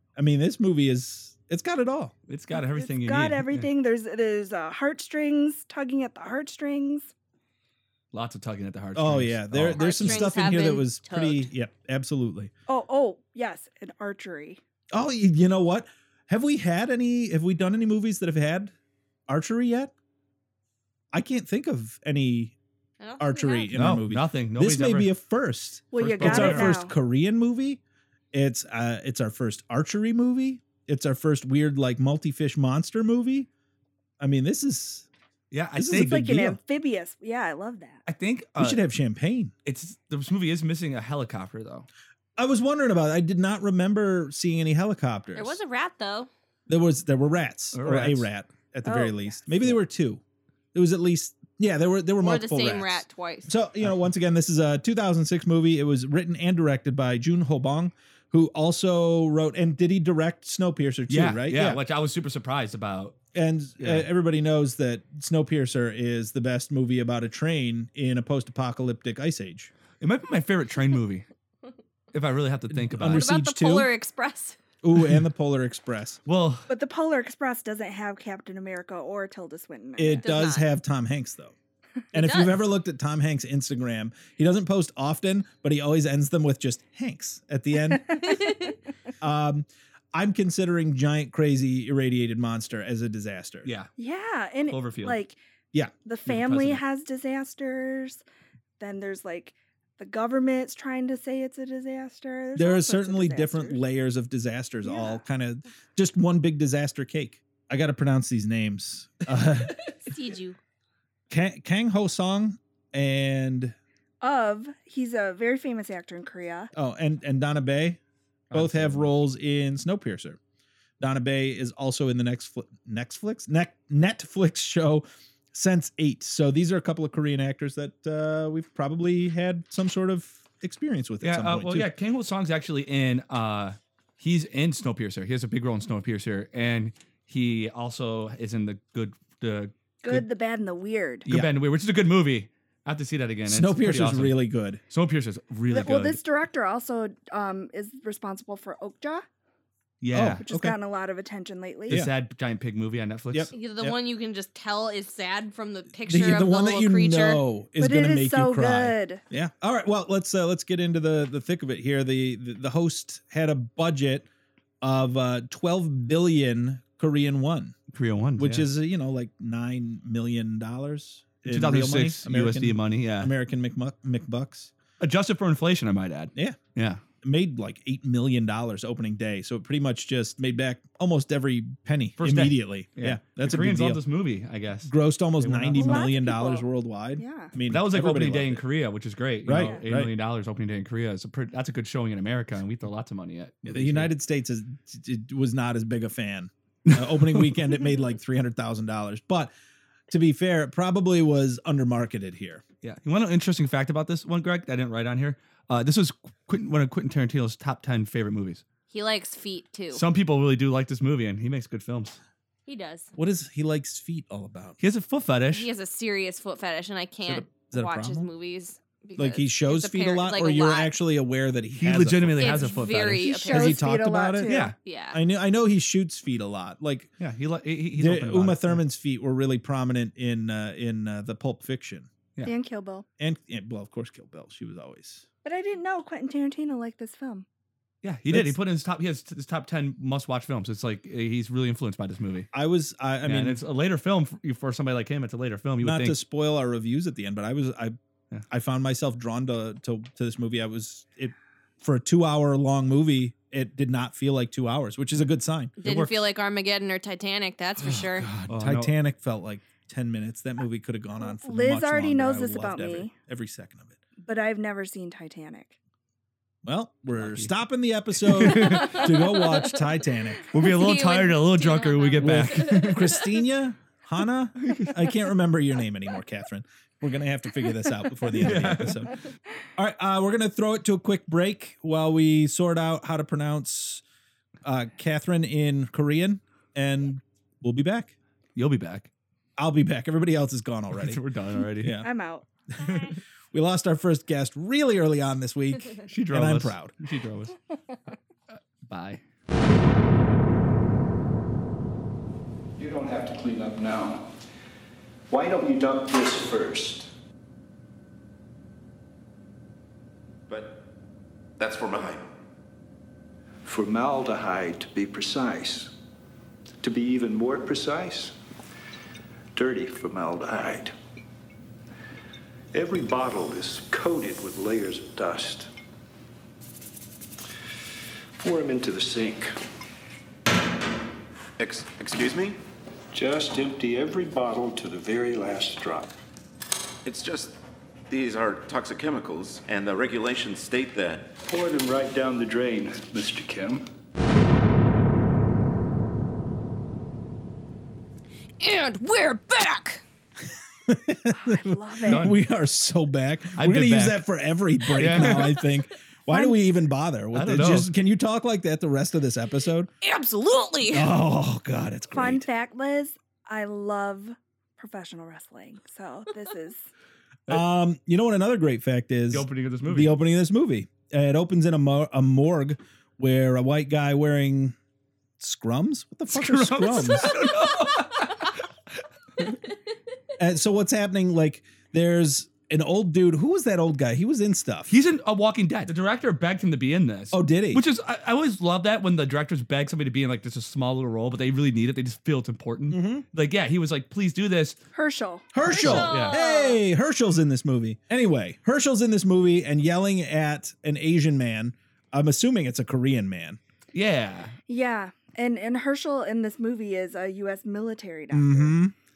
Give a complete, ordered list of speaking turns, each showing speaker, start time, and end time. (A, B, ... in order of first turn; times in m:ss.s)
0:00.2-0:02.1 A
0:02.3-0:03.7 B
0:02.5-0:07.1 C
0:08.1-0:10.4 B
0:09.0-0:12.5 A
0:09.8-0:11.5 D
0:12.7-0:14.6 C
0:14.9-0:18.7 A
0:19.3-0:19.9 A
0:21.1-0:22.6 A
0:23.0-0:23.7 D
0:23.2-0:27.8 A
0:23.8-0:25.1 B
0:25.9-0:26.9 C
0:26.0-0:26.8 B
0:28.3-0:33.5 A
0:34.2-0:35.1 A
0:35.5-0:36.2 B
0:35.8-0:36.6 A
0:35.9-0:38.0 C
0:38.1-0:38.8 B
0:38.6-0:39.5 A
0:39.6-0:41.9 B
0:42.4-0:45.6 A
0:45.3-0:46.3 D
0:46.7-0:50.2 A
0:47.7-0:48.3 B
0:48.8-0:49.6 C
0:50.7-1:01.8 A
0:52.2-0:53.5 D
1:01.1-1:03.2 B
1:03.3-1:09.7 A
1:03.8-1:04.1 B
1:10.0-1:11.3 B
1:12.1-1:13.3 B
1:12.7-1:13.9 A
1:13.1-1:14.6 D
1:14.8-1:16.2 A
1:16.3-1:16.7 B
1:16.7-1:20.2 C
1:20.0-1:21.5 A
1:20.2-1:20.7 D
1:22.1-1:28.4 A
1:22.1-1:22.5 D
1:28.2-1:28.7 C
1:29.2-1:33.7 A
1:33.6-1:33.9 B
1:34.0-1:35.4 C
1:34.7-1:35.2 B
1:35.7-1:36.8 A
1:36.0-1:38.2 C
1:38.8-1:43.8 C
1:42.6-1:49.8 A
1:44.8-1:45.2 C
1:49.9-1:50.6 D
1:51.3-1:53.8 A
1:54.2-1:56.7 C
1:56.7-1:58.0 A
1:58.5-1:59.1 B
1:58.5-2:00.4 A
2:01.0-2:11.9 A
2:11.2-2:20.2 B
2:20.0-2:21.3 C
2:21.3-2:26.2 B
2:23.5-2:24.8 A
2:25.7-2:29.2 C
2:30.0-2:30.4 B
2:30.1-2:30.8 A
2:30.4-2:32.0 C
2:31.9-2:33.5 B
2:33.3-2:34.0 A
2:33.5-2:37.4 D
2:36.1-2:44.3 A
2:37.8-2:39.2 C
2:44.8-2:47.8 A
2:47.9-2:48.7 B
2:48.4-2:54.7 A
2:51.5-2:53.3 B
2:55.0-2:57.0 B
2:57.2-3:04.0 A
3:02.2-3:06.1 B
3:04.8-3:08.6 A
3:05.8-3:06.7 C
3:07.2-3:07.5 C
3:07.7-3:14.1 B
3:09.5-3:10.1 A
3:09.6-3:09.8 C
3:13.7-3:19.5 A
3:16.9-3:17.8 B
3:20.1-3:22.6 A
3:22.8-3:28.6 B
3:28.9-3:30.0 D
3:29.9-3:32.2 B
3:32.7-3:33.1 D
3:33.2-3:34.8 A
3:34.8-3:35.7 B
3:35.5-3:40.9 D
3:37.3-3:38.3 A
3:39.2-3:42.7 A
3:41.8-3:43.4 B
3:42.4-3:43.8 D
3:43.2-3:44.7 C
3:43.5-3:44.5 A
3:44.4-3:44.8 B
3:44.8-3:45.2 D
3:45.1-3:47.1 A
3:47.2-3:48.8 B
3:48.0-3:52.1 A
3:52.4-3:53.1 C
3:53.2-3:55.3 A
3:55.4-3:57.5 C
3:58.0-4:02.5 B
3:58.3-3:58.6 A
4:02.5-4:03.6 A
4:03.2-4:06.2 B
4:05.8-4:08.0 A
4:08.5-4:15.8 A
4:15.8-4:18.3 D
4:15.8-4:16.2 B
4:17.8-4:24.0 A
4:18.4-4:18.9 B
4:21.2-4:23.1 C
4:24.2-4:25.8 C
4:26.6-4:30.5 A
4:27.2-4:27.5 B
4:28.2-4:29.1 B
4:28.6-4:29.6 D
4:30.5-4:33.2 B
4:30.6-4:33.2 D
4:32.2-4:39.2 A
4:34.6-4:34.9 B
4:38.4-4:39.1 B
4:39.8-4:44.0 A
4:44.6-4:48.2 A
4:48.6-4:49.1 B
4:49.6-4:51.2 A
4:50.9-4:52.0 B
4:51.8-4:52.1 A
4:52.0-4:52.5 C
4:53.5-4:56.9 A
4:56.1-4:57.6 B
4:58.5-4:59.2 B
5:02.8-5:04.2 E
5:05.3-5:07.1 E
5:10.5-5:10.8 F
5:11.6-5:12.3 F
5:13.6-5:15.9 E
5:16.8-5:18.4 E
5:19.6-5:20.9 E
5:22.7-5:25.7 E
5:28.4-5:29.5 E
5:31.6-5:32.6 F
5:33.1-5:36.1 E
5:37.0-5:37.6 F
5:38.1-5:41.3 F
5:41.4-5:43.9 E
5:48.6-5:50.0 D
5:50.9-5:59.9 A
5:51.3-5:52.3 C
5:52.1-5:52.4 B
5:53.6-5:54.2 B
5:54.9-5:55.6 B
5:56.3-5:56.7 C
5:57.3-5:57.9 B
6:00.0-6:01.1 D
6:00.9-6:02.5 A
6:02.1-6:06.9 C
6:07.5-6:14.8 A
6:09.3-6:10.2 B
6:15.4-6:17.5 A
6:16.3-6:18.6 B
6:20.4-6:24.9 A
6:24.9-6:34.8 B
6:27.3-6:27.8 A
6:32.9-6:33.2 A
6:34.9-6:36.0 C
6:35.5-6:43.6 A
6:35.6-6:36.8 D
6:35.7-6:36.4 B
6:43.9-6:44.5 B
6:44.7-6:48.8 C
6:48.3-6:48.9 A